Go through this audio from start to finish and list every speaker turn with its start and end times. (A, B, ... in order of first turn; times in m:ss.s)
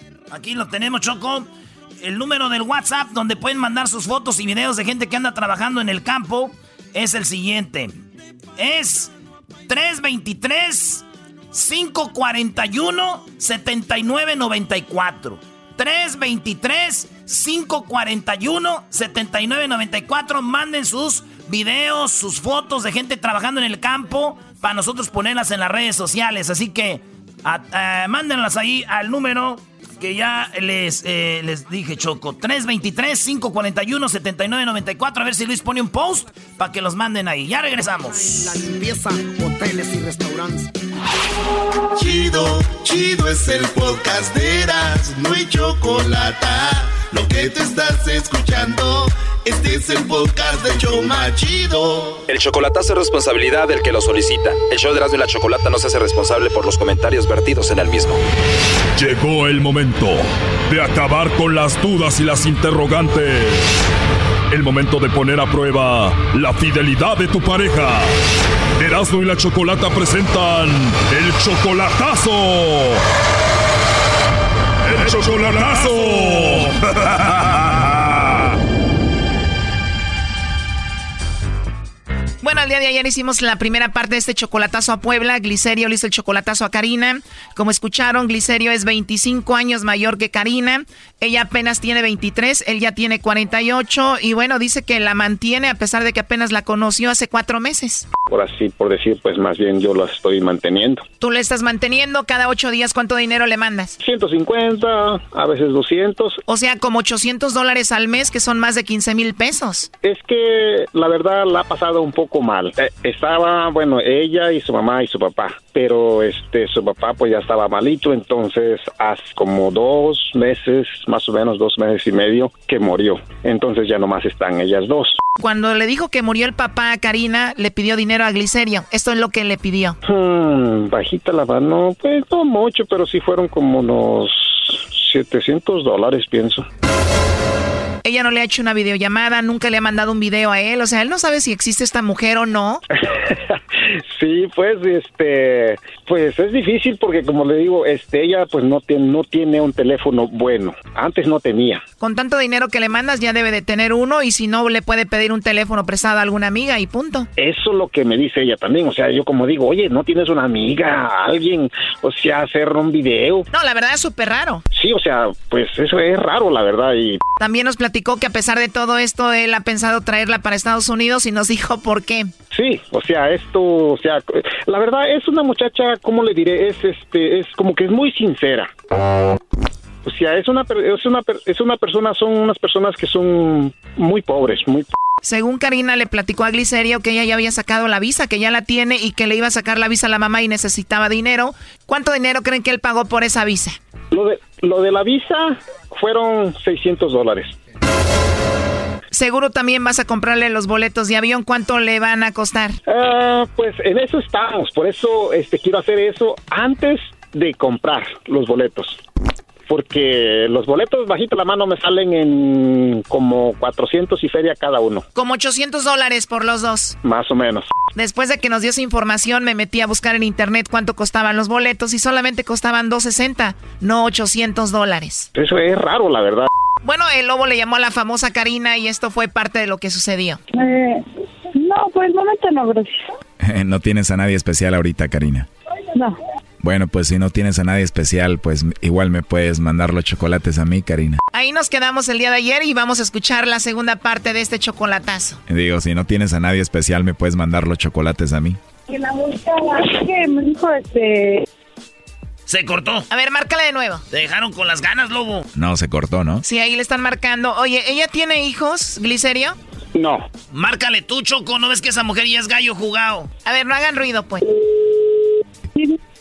0:00.3-0:08.0 A
0:08.6-0:09.1 A
0:09.7-0:38.6 A
0:38.4-0:40.7 B
0:41.9-0:52.2 C
0:52.3-0:58.2 D
0:59.0-1:03.7 E
1:04.5-1:08.1 E
1:08.8-1:13.0 E
1:14.9-1:18.5 E
1:22.4-1:38.1 F
1:38.3-1:41.0 G
1:41.2-1:44.0 F
1:44.0-1:46.4 G
1:46.5-1:49.9 F
1:50.0-2:05.2 G
2:05.4-2:10.0 F
2:10.0-2:16.6 G
2:18.0-2:22.8 F
2:23.1-2:31.8 G
2:32.0-2:37.3 F
2:37.4-2:43.5 G
2:43.5-2:44.6 F
2:44.7-2:47.2 G
2:47.4-2:52.3 F
2:52.5-2:58.7 G
3:00.0-3:04.9 G
3:05.2-3:13.8 F
3:14.1-3:17.6 G
3:19.1-3:22.8 F
3:22.9-3:29.0 G
3:29.7-3:35.0 G
3:35.2-3:37.0 F
3:37.0-3:37.7 G
3:38.0-3:45.3 F
3:45.4-3:46.5 G
3:46.8-3:50.4 F
3:50.5-3:53.1 H
3:53.4-3:55.5 I
3:56.6-4:01.2 I
4:01.3-4:05.4 F
4:05.5-4:08.6 I
4:08.9-4:11.5 H
4:12.5-4:13.1 A
4:13.1-4:14.0 F
4:14.1-4:15.5 A
4:15.6-4:16.4 I
4:16.4-4:19.6 F
4:20.0-4:20.2 G
4:20.5-4:23.3 A
4:23.4-4:24.4 F
4:24.7-4:25.2 H